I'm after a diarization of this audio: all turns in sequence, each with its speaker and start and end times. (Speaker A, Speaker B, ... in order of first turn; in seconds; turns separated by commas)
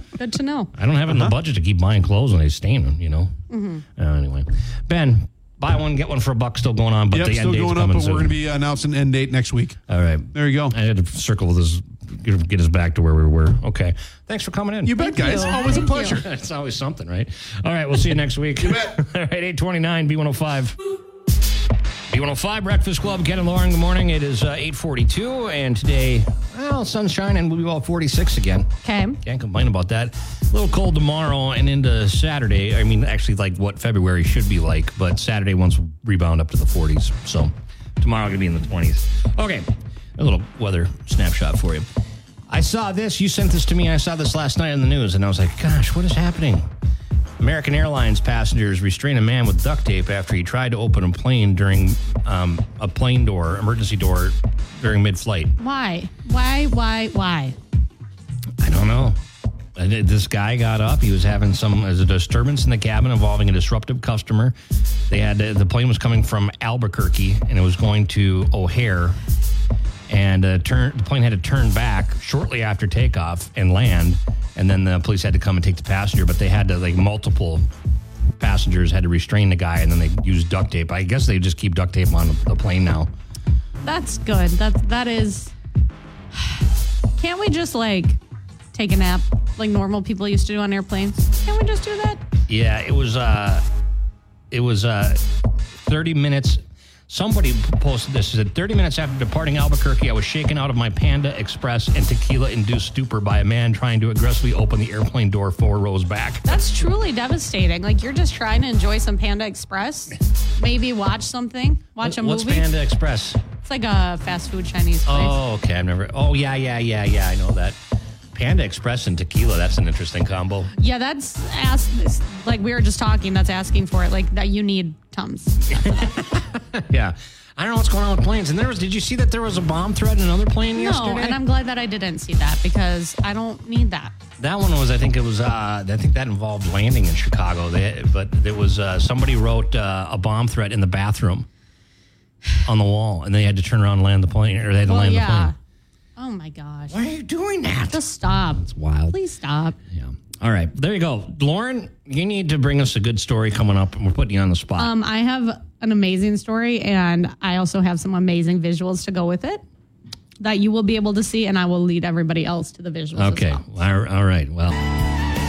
Speaker A: 0.2-0.7, Speaker B: 0.7-3.3, Speaker C: 1.1-1.3, Speaker A: 3.5-3.8, Speaker B: 4.0-8.4, Speaker C: 7.1-9.8, Speaker B: 9.9-20.8, Speaker C: 10.3-10.8, Speaker C: 14.8-16.3, Speaker A: 15.0-16.2, Speaker C: 18.6-19.0, Speaker B: 22.1-28.7, Speaker A: 28.8-29.2, Speaker B: 29.2-41.9, Speaker B: 42.5-46.7, Speaker B: 47.4-55.5, Speaker A: 55.6-57.6, Speaker B: 58.6-59.2, Speaker B: 59.8-64.6, Speaker B: 65.1-69.2, Speaker B: 70.1-77.7, Speaker B: 78.4-83.1, Speaker A: 83.8-85.5, Speaker A: 86.3-86.7, Speaker A: 87.2-88.2, Speaker A: 88.7-92.2, Speaker B: 92.5-93.7, Speaker B: 94.5-95.3, Speaker B: 95.8-106.6, Speaker A: 106.5-112.7, Speaker B: 112.0-113.4, Speaker A: 113.6-115.4, Speaker B: 115.1-117.8, Speaker B: 118.3-120.7, Speaker A: 120.8-126.0, Speaker B: 125.8-131.4, Speaker A: 130.7-134.2, Speaker B: 134.4-141.5, Speaker B: 142.6-145.5, Speaker A: 144.9-145.6, Speaker A: 146.2-147.0, Speaker B: 146.9-148.0, Speaker A: 147.9-149.8, Speaker B: 148.6-149.2, Speaker B: 149.9-154.9, Speaker A: 154.8-159.6, Speaker A: 160.4-163.7, Speaker B: 163.2-165.0